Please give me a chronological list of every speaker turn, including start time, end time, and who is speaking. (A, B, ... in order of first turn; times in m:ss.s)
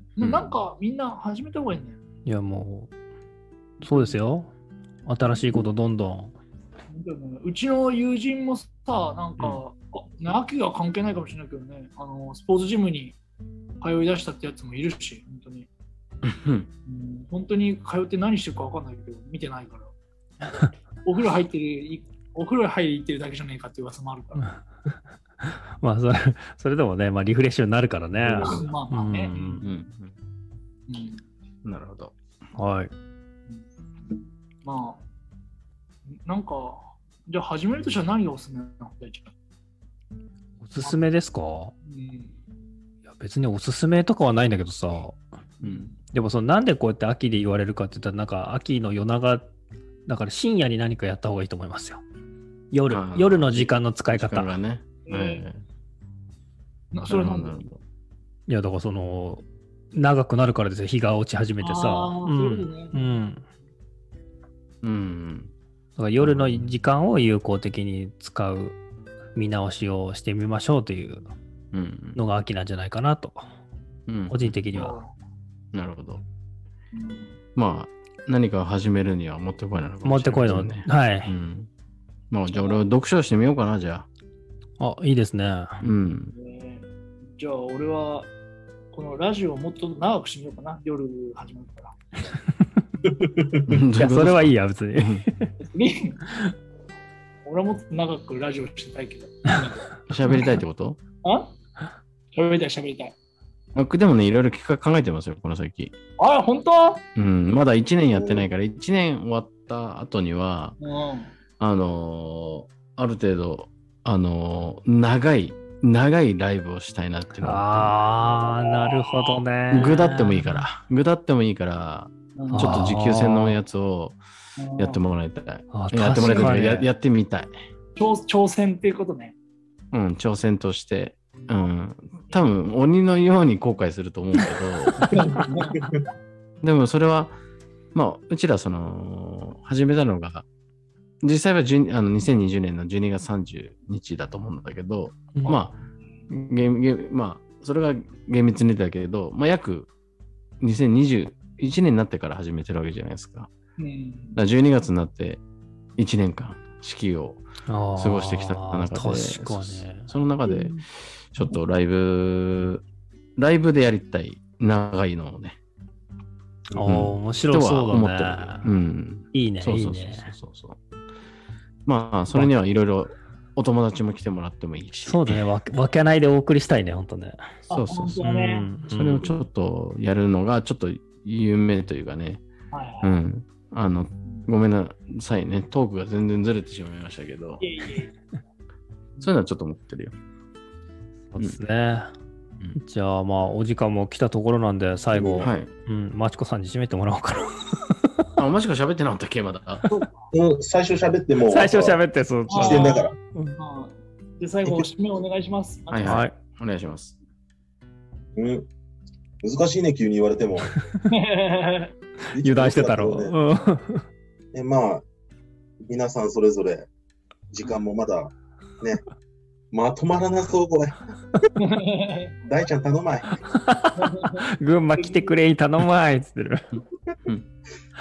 0:00.2-0:02.0 A
0:00.2-0:00.5 B
0:02.2-0:02.9 C
0:03.8-0:04.2 A
0:03.8-0:04.5 C
0:05.0-0:06.3 C
0:06.9-0:13.2 A
0:13.8-0:15.7 A
0:16.2-0:16.7 B
0:16.8-0:19.9 A
0:21.0-0:24.5 A
0:25.4-0:29.6 C
0:28.2-0:28.6 B
0:28.4-0:29.7 A
0:29.6-0:30.1 B
0:30.9-0:31.2 A
0:31.6-0:32.1 B
0:32.6-0:32.9 C
0:33.5-0:35.0 A
0:36.1-0:39.3 A
0:40.6-0:41.7 C
0:41.8-0:42.3 A
0:43.1-0:45.2 C
0:45.6-0:46.0 A
0:45.6-0:45.9 B
0:46.1-0:49.5 C
0:50.1-0:52.0 C
0:52.7-0:54.5 C
0:52.9-0:55.6 B
0:55.0-0:55.4 A
0:56.9-0:57.5 A
0:57.0-0:57.8 B
0:58.5-1:03.4 C
1:01.6-1:03.0 A
1:04.8-1:05.5 B
1:06.0-1:08.8 C
1:06.2-1:06.6 B
1:09.3-1:11.3 C
1:11.7-1:12.2 B
1:12.2-1:13.4 C
1:14.1-1:14.6 B
1:14.3-1:15.0 C
1:14.7-1:15.1 A
1:15.7-1:16.2 B
1:16.9-1:17.4 A
1:17.6-1:21.7 B
1:20.0-1:21.3 C
1:22.3-1:24.1 B
1:22.5-1:22.8 A
1:24.8-1:25.8 C
1:25.8-1:26.3 B
1:26.3-1:28.3 A
1:28.9-1:32.0 A
1:33.0-1:33.6 D
1:33.6-1:35.2 B
1:33.7-1:35.5 C
1:35.6-1:36.2 A
1:37.4-1:39.8 A
1:40.1-1:41.0 B
1:41.2-1:41.5 A
1:42.3-1:43.1 A
1:43.7-1:45.9 B
1:46.2-1:47.0 A
1:47.1-1:50.8 B
1:50.8-1:51.3 A
1:51.6-1:58.0 B
1:57.4-2:00.6 C
1:58.6-1:59.9 A
1:59.7-2:04.2 B
2:02.4-2:02.9 A
2:02.5-2:03.6 C
2:04.6-2:05.0 A
2:04.8-2:07.5 B
2:05.7-2:06.9 C
2:06.2-2:06.6 A
2:08.0-2:09.3 A
2:09.9-2:15.4 B
2:15.0-2:15.8 A
2:15.0-2:15.3 C
2:16.6-2:17.4 B
2:17.9-2:20.4 B
2:21.2-2:25.7 B
2:26.3-2:29.9 B
2:30.6-2:33.5 B
2:33.8-2:34.4 A
2:34.4-2:35.4 B
2:36.0-2:37.4 B
2:37.7-2:40.1 C
2:38.0-2:42.8 B
2:40.4-2:40.8 A
2:43.4-2:45.6 B
2:46.7-2:50.8 B
2:46.7-2:48.7 C
2:49.3-2:50.3 C
2:51.8-2:55.4 B
2:55.0-2:57.6 C
2:57.7-2:58.7 A
2:57.7-2:58.2 B
2:58.2-2:59.3 C
2:58.9-3:02.4 B
3:02.7-3:03.2 A
3:03.0-3:07.6 B
3:07.6-3:08.1 A
3:09.2-3:10.1 B
3:11.3-3:12.1 C
3:12.8-3:18.2 C
3:15.1-3:15.5 D
3:15.4-3:15.7 B
3:18.4-3:19.8 B
3:19.9-3:20.3 A
3:20.3-3:23.1 D
3:21.4-3:23.6 C
3:22.5-3:23.0 A
3:23.6-3:26.2 A
3:25.9-3:27.2 B
3:26.0-3:26.3 C
3:28.3-3:28.7 D
3:29.4-3:30.7 D
3:31.1-3:31.9 A
3:32.3-3:33.4 D
3:32.4-3:34.0 C
3:34.5-3:35.0 D
3:35.8-3:36.9 D
3:37.5-3:39.0 D
3:39.7-3:41.0 D
3:41.6-3:42.3 A
3:42.4-3:43.4 D
3:43.7-3:46.6 C
3:44.0-3:44.5 A
3:46.7-3:47.4 B